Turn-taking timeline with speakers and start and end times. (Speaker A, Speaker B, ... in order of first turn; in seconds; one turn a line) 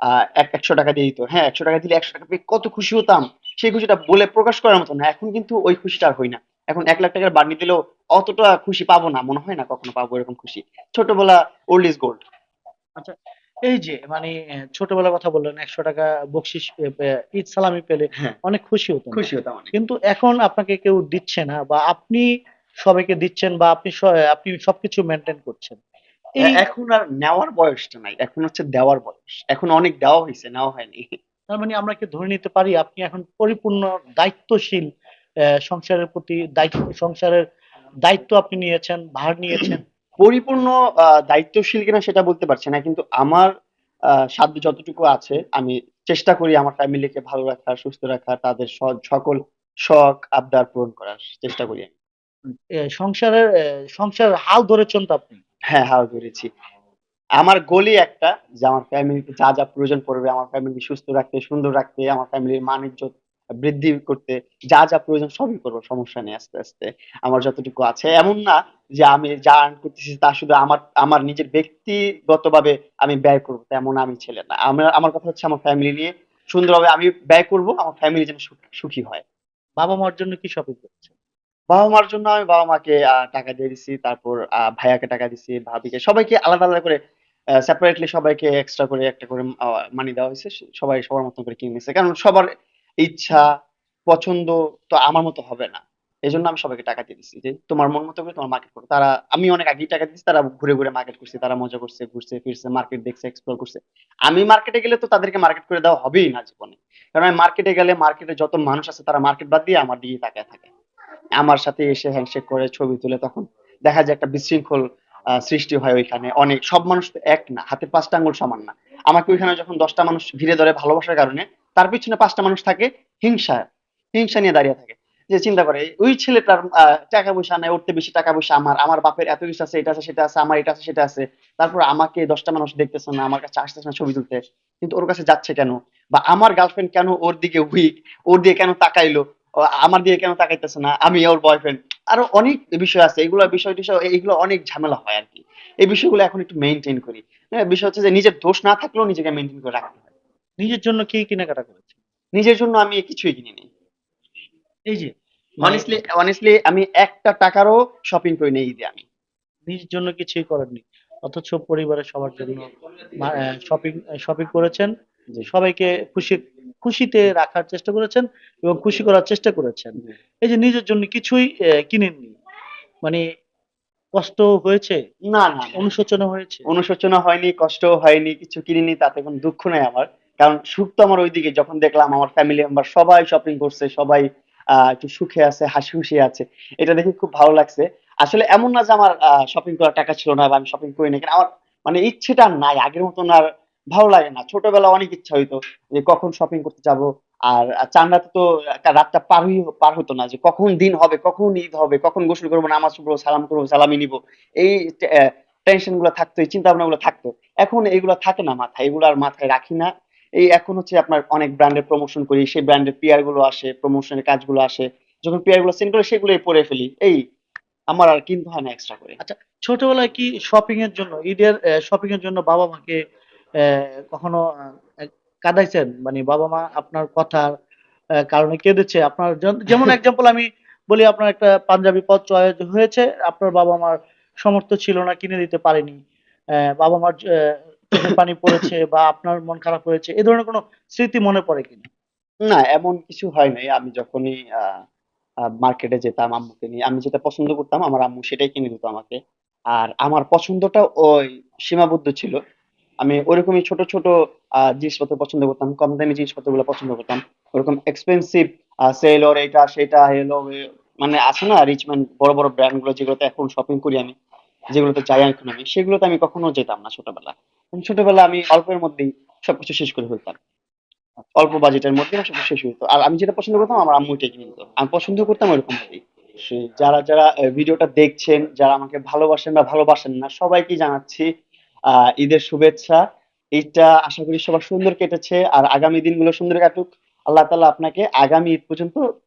Speaker A: 0.4-12.2
Speaker B: 13.7-22.2
Speaker A: 19.1-19.7
Speaker B: 22.8-25.8
Speaker A: 26.4-31.1
Speaker B: 31.5-34.9
Speaker B: 35.7-37.4
Speaker B: 38.0-39.8
Speaker A: 40.2-43.5
Speaker A: 44.2-51.9
Speaker B: 52.5-53.4
Speaker B: 53.9-55.4
Speaker A: 55.7-56.5
Speaker A: 57.4-79.2
Speaker B: 79.8-81.1
Speaker A: 81.7-87.0
Speaker A: 87.7-92.5
Speaker A: 93.0-93.5
Speaker A: 94.1-110.7
Speaker A: 111.4-114.8
Speaker A: 115.4-139.2
Speaker A: 139.8-150.1
Speaker B: 150.6-151.8
Speaker A: 152.3-153.7
Speaker B: 155.6-155.9
Speaker A: 155.6-159.0
Speaker B: 159.7-164.9
Speaker B: 165.5-172.4
Speaker B: 174.2-175.0
Speaker A: 175.2-175.9
Speaker B: 175.8-176.7
Speaker A: 176.7-184.2
Speaker A: 184.8-209.9
Speaker A: 210.4-217.2
Speaker A: 217.9-219.2
Speaker B: 219.2-223.0
Speaker B: 223.6-224.4
Speaker B: 225.0-227.5
Speaker B: 228.3-236.0
Speaker B: 236.8-241.9
Speaker A: 242.5-244.8
Speaker A: 245.6-249.2
Speaker A: 249.7-252.3
Speaker A: 253.0-254.1
Speaker A: 254.6-264.1
Speaker A: 264.7-270.4
Speaker A: 271.4-281.3
Speaker A: 282.1-283.0
Speaker A: 283.6-289.0